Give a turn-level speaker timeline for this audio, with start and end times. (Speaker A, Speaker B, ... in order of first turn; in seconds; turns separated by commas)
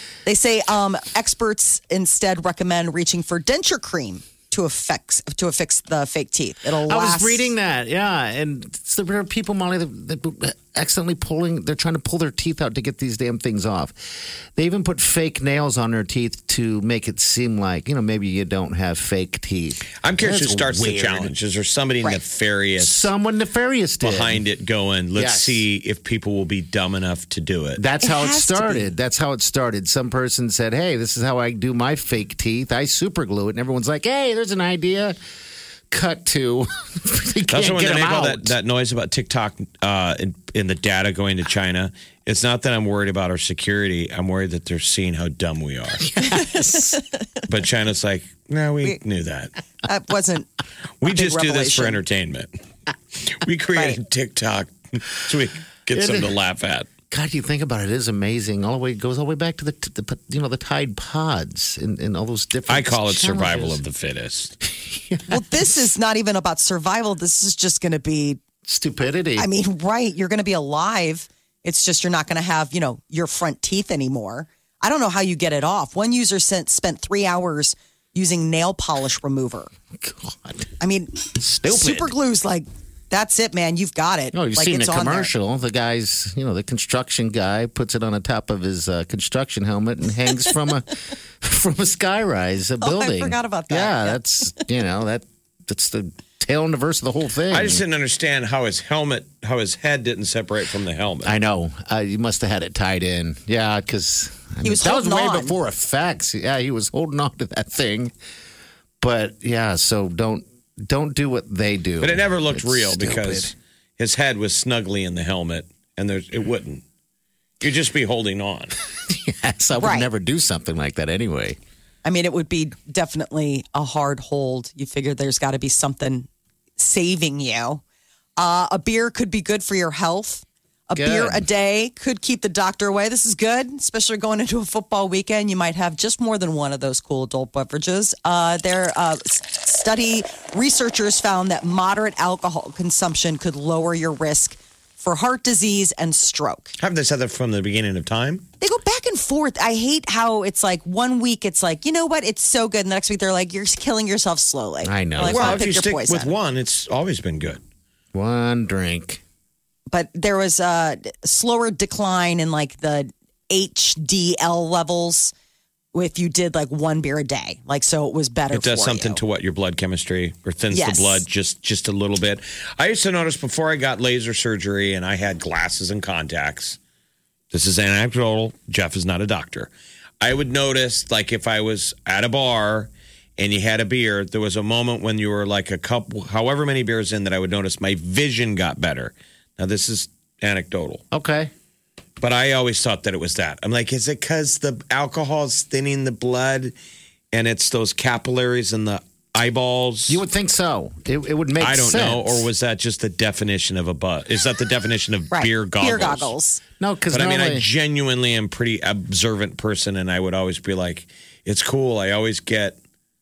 Speaker A: 0.2-7.5, Speaker B: 6.8-21.4, Speaker C: 20.0-23.1, Speaker B: 22.8-24.4, Speaker C: 24.0-27.8, Speaker B: 25.2-25.6, Speaker B: 27.8-35.2, Speaker A: 28.0-28.9, Speaker B: 35.9-38.6, Speaker C: 37.5-46.1, Speaker B: 46.1-47.0, Speaker A: 46.3-47.0, Speaker C: 47.5-49.5, Speaker A: 49.9-50.5, Speaker C: 51.0-52.5, Speaker A: 51.1-52.0, Speaker C: 53.2-56.9, Speaker B: 55.9-56.3, Speaker B: 57.1-63.8, Speaker C: 62.7-64.5, Speaker B: 64.6-65.7, Speaker A: 65.3-68.4, Speaker B: 68.6-69.5, Speaker A: 69.4-79.7, Speaker B: 80.0-80.7, Speaker A: 80.8-85.3, Speaker B: 81.4-82.2, Speaker B: 84.3-97.8, Speaker A: 92.8-94.6, Speaker C: 97.5-101.3, Speaker B: 101.2-108.1, Speaker A: 104.6-105.5, Speaker B: 109.0-113.5, Speaker C: 112.0-116.8, Speaker C: 117.6-118.7, Speaker B: 119.0-121.6, Speaker A: 119.8-120.1, Speaker A: 122.0-127.8, Speaker A: 128.4-146.7, Speaker B: 130.9-131.5, Speaker C: 146.8-148.4, Speaker A: 148.6-156.3, Speaker B: 154.8-155.7, Speaker C: 155.2-157.6, Speaker B: 158.1-159.2, Speaker A: 159.9-165.3, Speaker A: 165.9-169.2, Speaker C: 168.5-176.8, Speaker A: 170.7-171.2, Speaker C: 177.5-179.7, Speaker C: 180.2-191.0, Speaker B: 191.1-191.5, Speaker C: 192.2-196.7, Speaker C: 197.3-200.2, Speaker B: 200.1-202.5, Speaker C: 201.6-206.3, Speaker A: 205.3-206.6, Speaker B: 206.8-207.7, Speaker C: 207.1-212.8